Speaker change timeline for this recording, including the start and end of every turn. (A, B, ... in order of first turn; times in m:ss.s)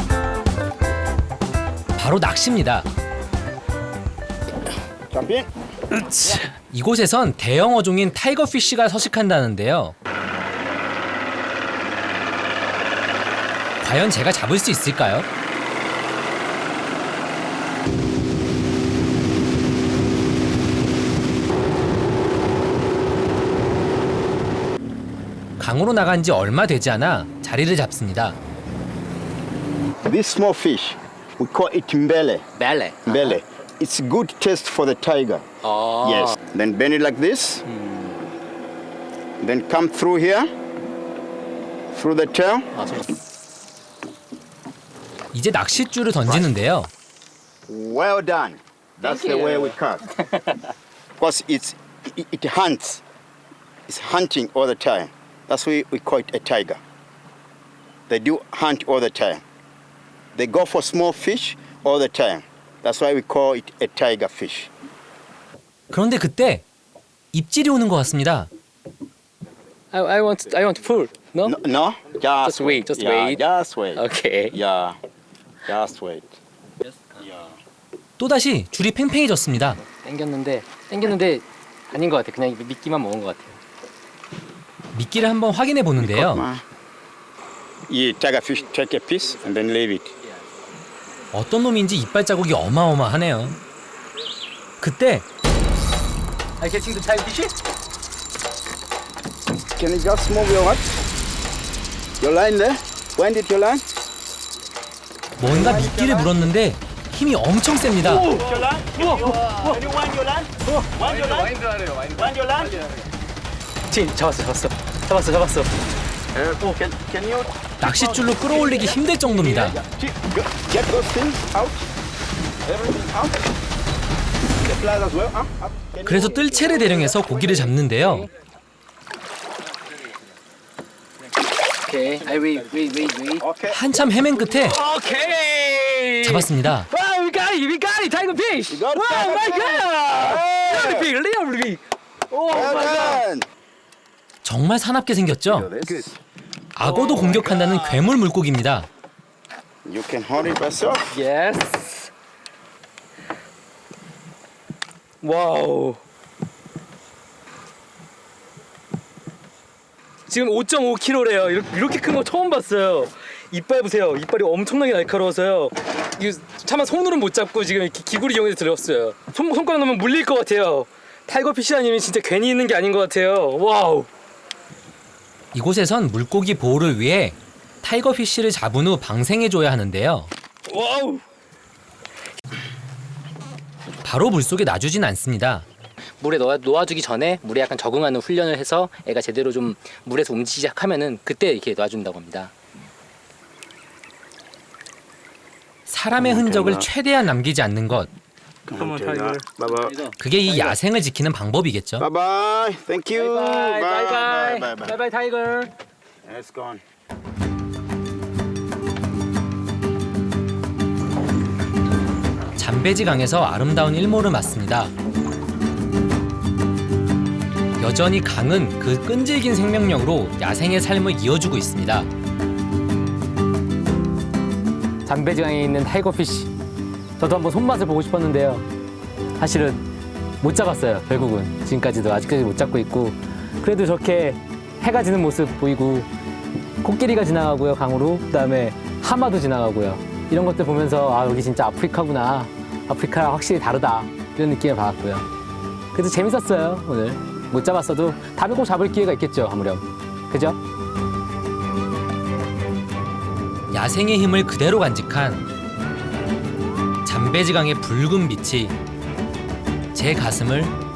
0:02.0-0:02.9 A
0:05.1-0:05.5 B
0:05.9-0:06.5 C
0:06.7-0:09.9 A
0:13.8-0:15.2 A
0:25.6-0:28.4 A
0:30.0-0:32.4 B
0:32.6-0:33.4 C
0:33.0-0:35.4 B
0:35.6-0:36.3 C
0:36.0-0:37.6 B
0:37.7-0:38.2 C
0:39.4-0:40.5 B
0:41.9-0:42.7 B
0:42.7-0:43.2 C
0:45.3-0:46.9 A
0:46.2-0:46.5 B
0:47.7-0:50.1 B
0:49.0-0:49.8 C
0:51.2-0:53.0 B
0:53.9-0:56.8 B
0:58.1-0:59.4 B
1:00.3-1:04.7 B
1:05.9-1:06.6 A
1:07.3-1:08.5 A
1:09.9-1:11.6 C
1:11.4-1:15.0 B
1:12.4-1:13.4 C
1:13.9-1:14.6 C
1:15.7-1:16.4 B
1:17.2-1:17.6 B
1:18.2-1:19.8 A
1:19.9-1:23.6 C
1:24.9-1:26.5 A
1:26.0-1:26.6 B
1:27.9-1:30.1 B
1:29.3-1:29.6 C
1:31.3-1:33.6 A
1:34.8-1:35.2 A
1:36.6-1:37.5 C
1:39.8-1:41.0 B
1:42.2-1:43.8 B
1:45.4-1:48.3 A
1:45.4-1:46.5 B
1:48.0-1:49.8 C
1:48.3-1:52.8 B
1:50.6-1:52.1 C
1:53.9-1:55.7 C
1:56.3-2:01.9 B
1:57.8-1:59.8 A
2:02.6-2:03.4 B
2:04.6-2:07.8 B
2:06.0-2:08.3 A
2:07.9-2:08.3 C
2:11.8-2:13.4 C
2:13.4-2:13.8 B
2:13.7-2:14.8 A
2:14.5-2:23.2 C
2:16.2-2:16.9 A
2:18.7-2:21.1 B
2:22.5-2:23.5 B
2:24.4-2:25.7 A
2:25.4-2:26.2 B
2:26.7-2:28.9 A
2:26.8-2:28.1 C
2:29.8-2:31.0 B
2:31.1-2:32.1 C
2:35.2-2:36.0 C
2:40.3-2:54.1 C
2:55.5-3:00.3 A
3:00.7-3:01.2 C
3:04.0-3:05.6 A
3:06.2-3:12.5 C
3:15.9-3:18.1 A
3:16.2-3:16.9 B
3:18.7-3:20.0 B
3:18.7-3:20.8 C
3:20.2-3:22.1 A
3:22.0-3:25.0 B
3:23.1-3:25.7 C
3:26.2-3:26.8 B
3:32.6-3:34.9 A
3:37.8-3:42.1 A
3:45.0-3:46.5 C
3:47.2-3:48.6 C
3:49.4-3:49.8 C
3:50.4-3:56.1 C
3:56.8-4:05.2 C
4:05.9-4:10.6 C
4:13.7-4:15.4 A
4:17.0-4:18.8 A
4:19.9-4:20.7 A